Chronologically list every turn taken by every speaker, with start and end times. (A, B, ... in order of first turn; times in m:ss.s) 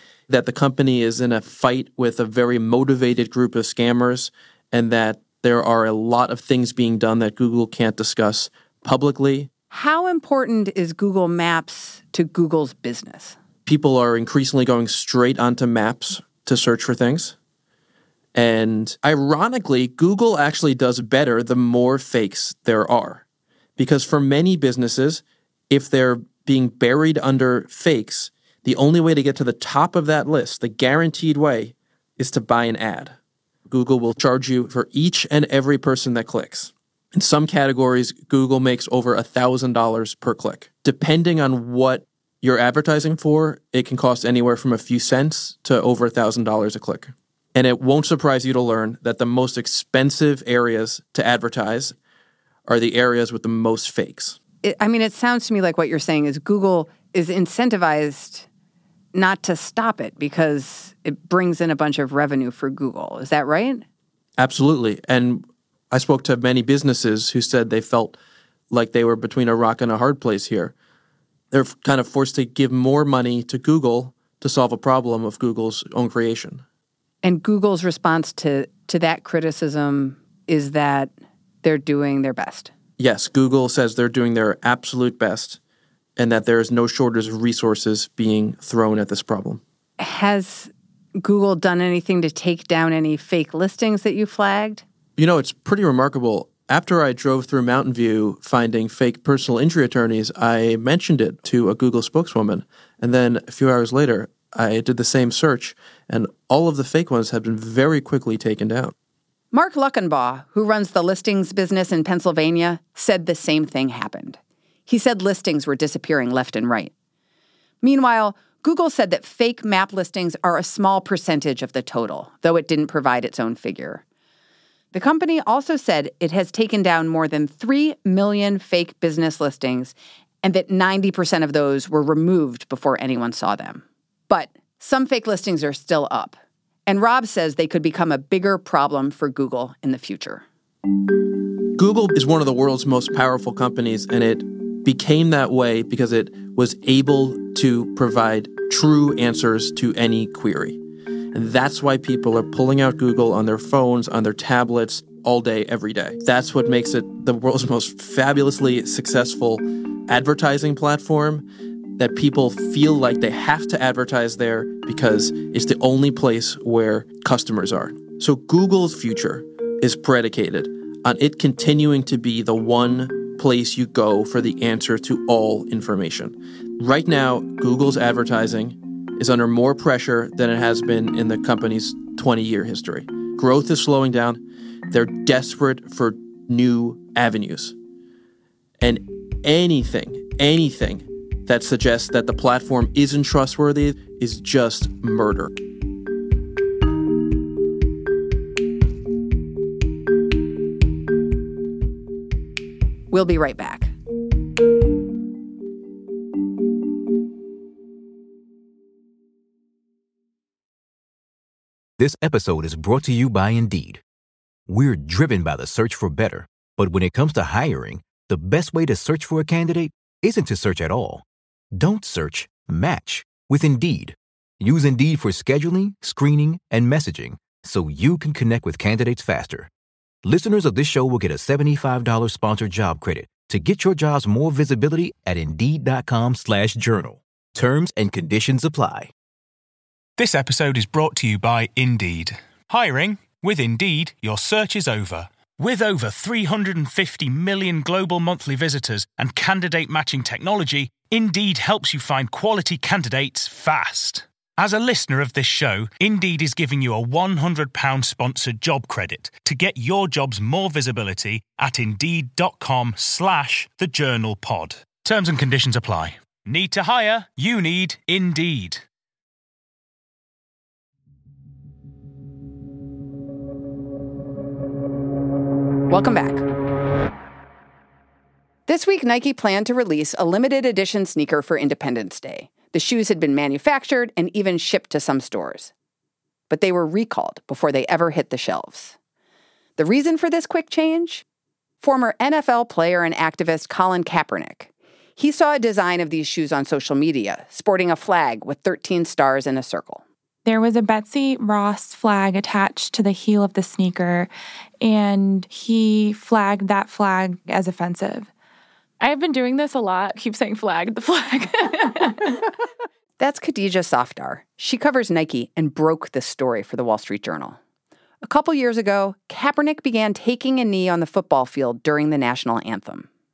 0:00.3-0:09.5 A
0:09.7-0:13.4 B
0:13.7-0:17.4 A
0:18.4-0:23.2 A
0:23.8-0:33.2 A
0:33.7-0:52.0 A
0:52.7-0:54.4 A
0:54.6-0:58.5 B
0:59.1-1:03.8 B
1:04.4-1:08.2 A
1:08.7-1:10.7 A
1:11.5-1:16.6 A
1:17.2-1:22.7 B
1:23.0-1:25.6 A
1:26.2-1:29.6 A
1:30.0-1:34.8 B
1:35.2-1:48.9 A
1:49.5-1:56.9 B
1:57.8-2:04.0 B
2:04.9-2:20.4 B
2:21.8-2:30.8 A
2:31.3-2:41.4 A
2:42.0-3:07.8 A
3:08.8-3:15.6 A
3:23.1-3:23.9 B
3:32.0-3:34.0 C
3:34.7-3:41.2 C
3:41.8-3:49.7 C
3:50.2-3:59.1 C
4:00.2-4:28.8 D
4:35.9-4:36.4 B
4:38.7-4:45.7 B
4:46.5-4:49.0 B
4:49.8-4:51.2 B
4:51.8-5:00.0 B
5:00.5-5:04.3 E
5:04.8-5:08.3 E
5:09.0-5:12.5 E
5:13.2-5:17.6 B
5:18.2-5:23.1 B